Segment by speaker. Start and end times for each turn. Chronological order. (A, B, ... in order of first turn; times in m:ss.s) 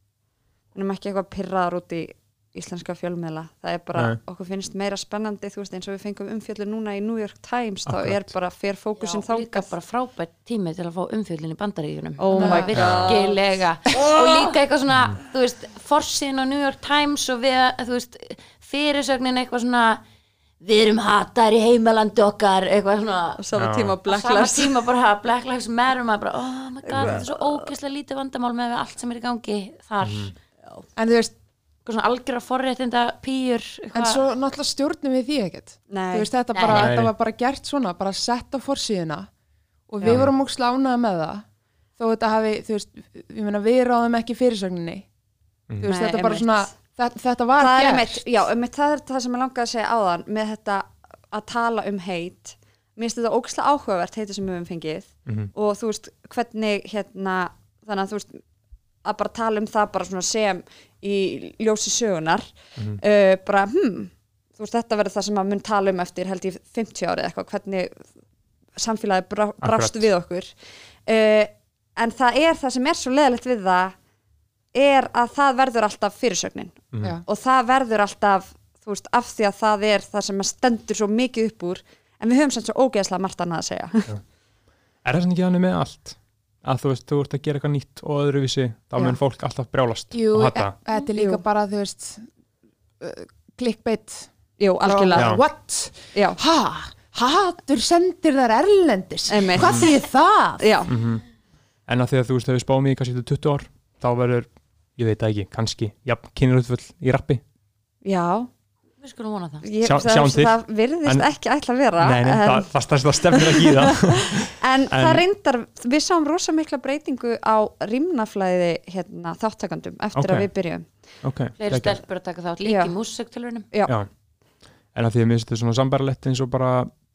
0:00.8-0:09.7 A
0:07.9-0:08.3 B
0:09.0-0:20.0 C
0:12.2-0:14.5 A
0:12.3-0:12.7 D
0:12.7-0:13.2 B
0:20.6-0:23.4 C
0:23.4-0:24.8 A
0:23.5-0:24.0 B
0:24.1-0:30.3 C
0:26.9-0:27.7 A
0:26.9-0:27.2 B
0:30.0-0:30.3 B
0:31.0-0:31.3 D
0:31.8-0:34.2 C
0:33.9-0:39.3 D
0:35.9-0:36.3 A
0:36.5-0:36.9 C
0:36.7-0:37.1 B
0:39.9-0:41.4 D
0:40.1-0:40.3 B
0:42.0-0:45.1 D
0:45.8-0:48.2 D
0:45.8-0:46.7 A
0:47.6-0:58.4 A
0:55.3-0:55.5 B
0:59.0-1:08.0 A
1:08.8-1:14.0 A
1:09.6-1:10.1 B
1:14.7-1:24.1 A
1:25.0-1:30.7 B
1:30.1-1:32.3 D
1:31.2-1:31.4 A
1:33.0-1:34.3 D
1:34.6-1:35.4 A
1:34.8-1:40.7 D
1:35.2-1:35.4 B
1:39.3-1:40.0 A
1:39.6-1:39.9 B
1:40.6-1:40.9 A
1:40.9-1:41.2 B
1:41.9-1:47.4 B
1:48.0-1:48.5 A
1:49.0-1:49.6 C
1:49.6-1:52.7 A
1:49.8-1:51.3 B
1:52.0-1:55.2 B
1:53.3-2:00.9 A
2:00.2-2:00.5 B
2:01.2-2:02.0 B
2:01.6-2:03.7 C
2:02.6-2:03.0 A
2:04.9-2:06.9 B